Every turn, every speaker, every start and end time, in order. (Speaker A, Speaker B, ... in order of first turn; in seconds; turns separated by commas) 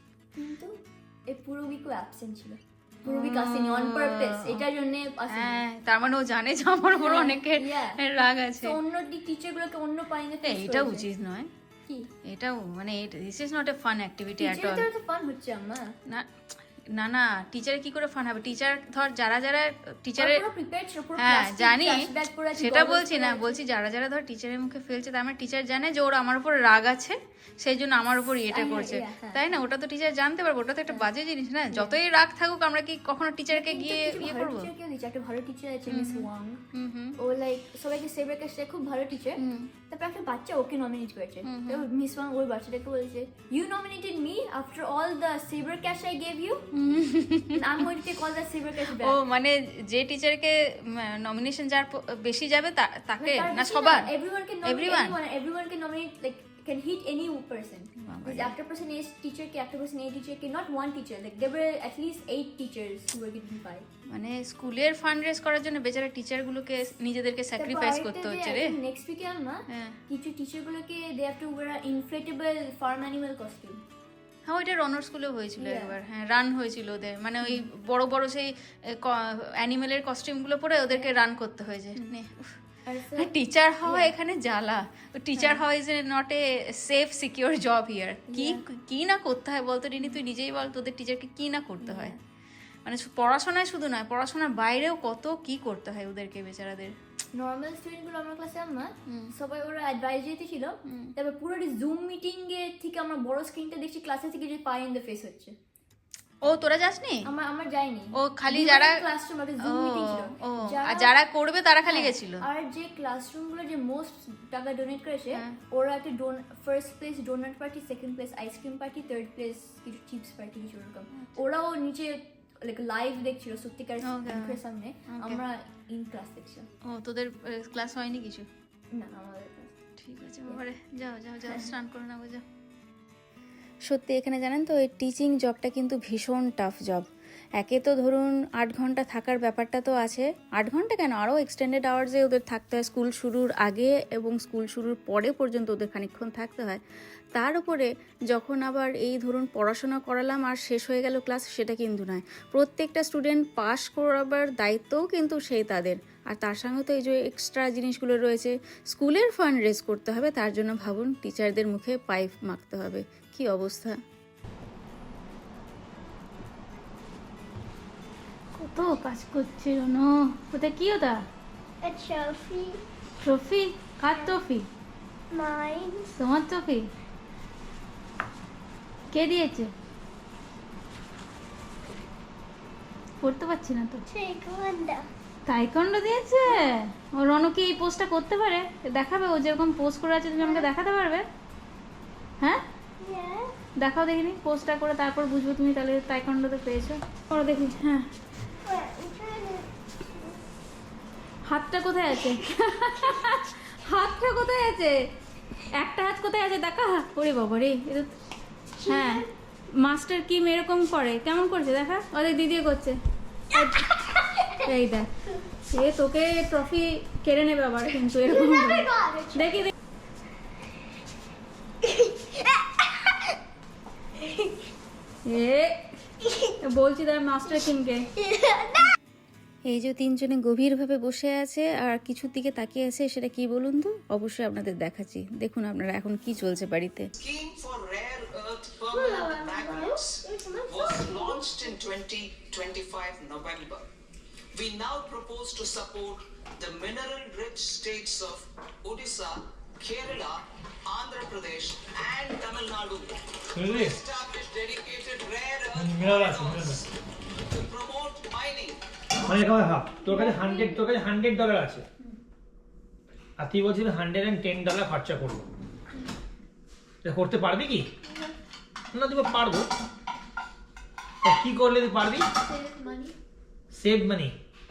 Speaker A: 0.3-5.6, Speaker B: 3.0-4.7, Speaker B: 5.3-8.8, Speaker A: 7.0-8.0, Speaker A: 8.6-11.1, Speaker B: 10.4-11.5, Speaker B: 12.2-14.8, Speaker A: 14.4-15.9, Speaker B: 16.9-20.4, Speaker A: 20.2-23.6, Speaker B: 21.2-22.1, Speaker B: 22.6-34.7, Speaker A: 28.5-29.4, Speaker A: 31.7-32.0, Speaker A: 33.5-36.6, Speaker B: 35.9-37.2, Speaker A: 37.2-47.0, Speaker B: 39.4-39.7, Speaker B: 41.4-41.8, Speaker B: 46.8-47.6, Speaker A: 47.5-49.2, Speaker B: 49.0-54.1, Speaker A: 53.2-63.9, Speaker B: 54.6-55.2, Speaker B: 58.0-58.5, Speaker B: 64.1-68.7, Speaker A: 67.6-73.8, Speaker B: 69.7-70.0, Speaker B: 74.5-82.6, Speaker A: 75.6-76.0, Speaker A: 77.4-77.7, Speaker A: 82.8-84.1, Speaker B: 83.1-92.2, Speaker A: 85.3-85.6, Speaker A: 88.3-88.6, Speaker A: 91.8-92.2, Speaker B: 92.8-96.9, Speaker A: 97.3-105.5, Speaker B: 99.1-99.3, Speaker B: 100.9-101.1, Speaker B: 106.4-107.3, Speaker A: 107.2-111.2, Speaker B: 108.1-109.0, Speaker B: 109.6-112.4, Speaker A: 111.8-126.7, Speaker B: 124.0-125.4, Speaker B: 126.8-128.5, Speaker A: 128.9-129.8, Speaker B: 130.0-132.4, Speaker B: 133.9-137.1, Speaker B: 137.6-146.8, Speaker B: 147.3-164.0, Speaker C: 168.6-171.2, Speaker D: 171.8-172.8, Speaker C: 173.2-174.7, Speaker D: 175.3-176.1, Speaker C: 176.1-176.9, Speaker C: 179.1-179.7, Speaker C: 183.2-184.0, Speaker D: 184.1-185.1, Speaker C: 185.5-191.2, Speaker D: 190.4-190.7, Speaker D: 193.0-193.6, Speaker C: 193.8-198.0, Speaker D: 198.6-200.4, Speaker C: 201.5-204.9, Speaker C: 205.8-207.8, Speaker B: 207.3-208.1, Speaker D: 208.8-209.3, Speaker C: 208.9-209.2, Speaker C: 209.8-212.9, Speaker B: 211.6-211.9, Speaker C: 213.5-213.9, Speaker D: 213.9-214.5, Speaker C: 214.6-215.1, Speaker C: 215.7-219.7, Speaker D: 218.3-219.4, Speaker D: 221.8-223.2, Speaker C: 225.2-225.7, Speaker C: 226.6-228.1, Speaker D: 228.2-228.9, Speaker B: 229.7-237.1, Speaker E: 237.2-243.8, Speaker D: 238.9-241.8, Speaker E: 244.5-256.9, Speaker F: 253.5-254.0, Speaker F: 255.7-256.8, Speaker E: 257.4-258.8, Speaker F: 259.2-261.8, Speaker A: 260.1-260.7, Speaker F: 263.4-265.4, Speaker F: 267.0-267.9, Speaker F: 268.9-269.7, Speaker F: 271.2-272.3, Speaker A: 272.4-273.1, Speaker F: 273.7-274.3